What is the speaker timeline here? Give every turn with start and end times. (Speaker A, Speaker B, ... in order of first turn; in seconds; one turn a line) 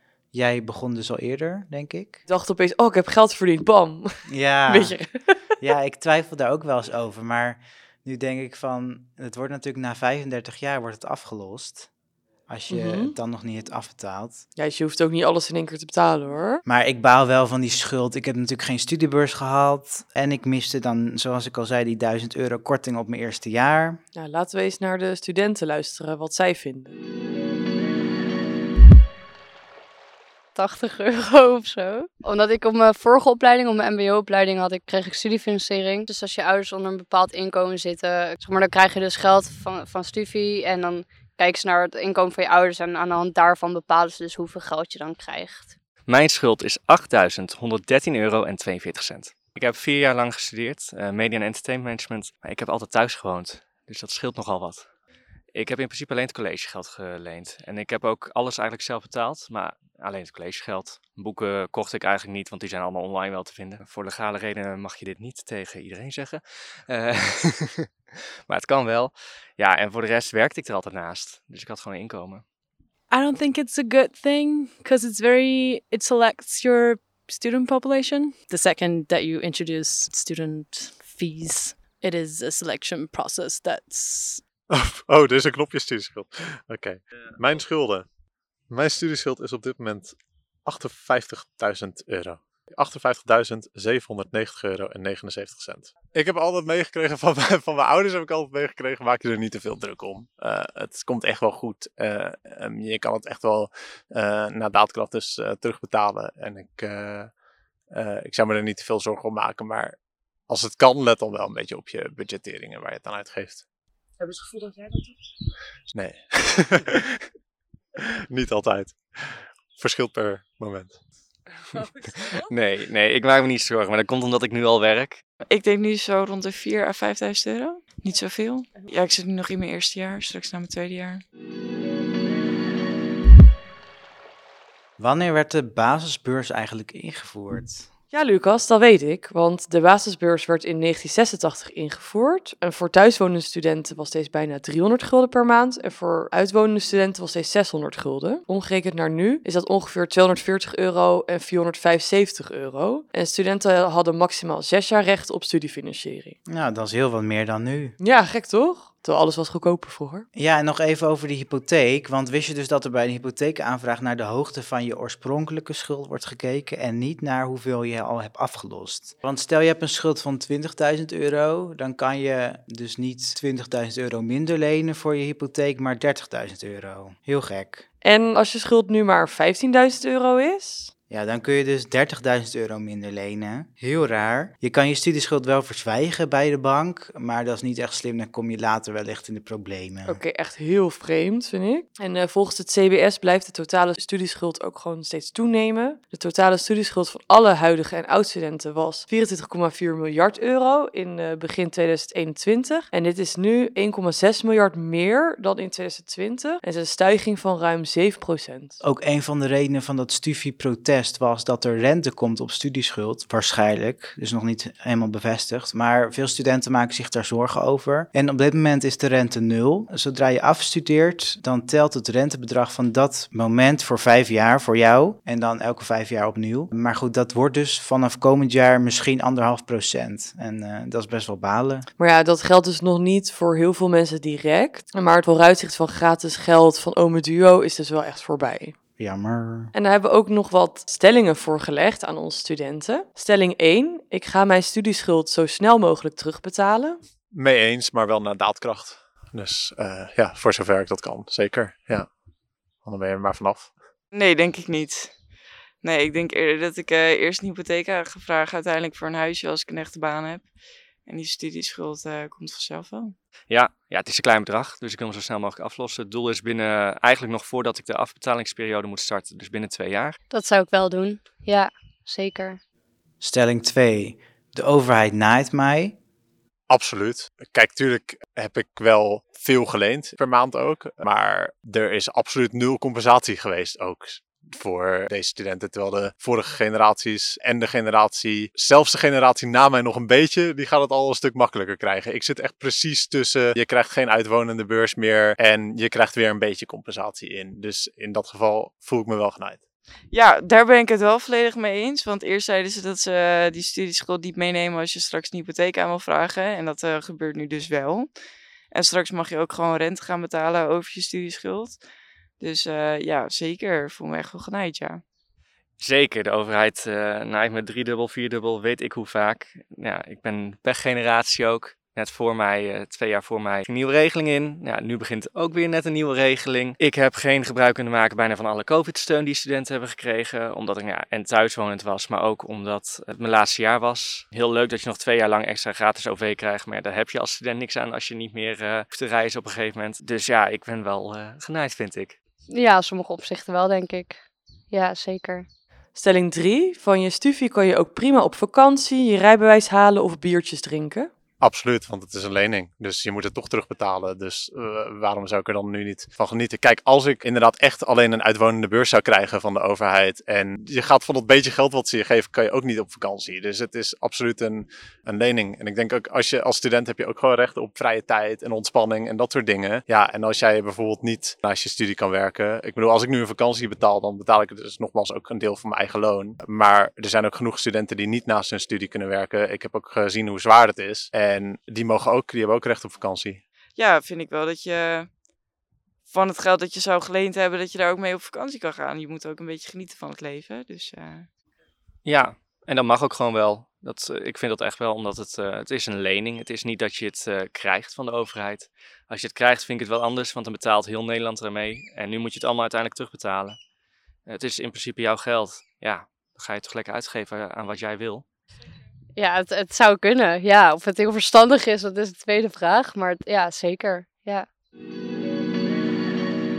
Speaker A: 0.3-2.2
Speaker B: 2.2-5.3
Speaker A: 4.3-5.0
Speaker A: 5.6-11.9
Speaker A: 12.5-14.4
Speaker B: 12.7-13.1
Speaker B: 14.6-16.6
Speaker A: 16.6-24.0
Speaker B: 24.1-26.9
Speaker C: 30.5-45.7
Speaker D: 46.1-54.9
Speaker D: 55.5-67.9
Speaker D: 68.5-72.4
Speaker E: 73.1-84.4
Speaker F: 84.7-88.0
Speaker F: 88.7-107.3
Speaker F: 107.9-113.6
Speaker F: 115.9-117.2
Speaker F: 118.0-121.0
Speaker D: 122.3-125.2
Speaker G: 125.5-131.2
Speaker A: 135.0-137.9
Speaker B: 138.1-156.3
Speaker A: 156.5-157.9
Speaker B: 158.0-160.2
Speaker A: 160.3-177.8
Speaker B: 178.0-180.9
Speaker A: 181.1-190.2
Speaker B: 190.1-208.8
Speaker A: 208.8-231.9
Speaker B: 232.0-238.7
Speaker A: 239.0-239.7
Speaker B: 239.7-247.0
Speaker F: 247.3-252.1
Speaker F: 252.8-253.7
Speaker G: 254.1-255.1
Speaker G: 255.8-260.4
Speaker G: 261.1-263.1
Speaker D: 263.5-270.1
Speaker C: 270.3-272.6
Speaker A: 273.2-275.9
Speaker F: 276.7-299.6
Speaker G: 300.1-308.1
Speaker G: 308.7-311.8
Speaker G: 312.4-315.0
Speaker D: 315.8-342.1
Speaker C: 342.5-344.2
Speaker C: 344.7-345.4
Speaker B: 345.9-351.1
Speaker F: 351.4-383.4
Speaker G: 383.8-385.1
Speaker G: 386.1-391.3
Speaker D: 392.0-403.6
Speaker D: 404.3-408.2
Speaker C: 409.1-414.4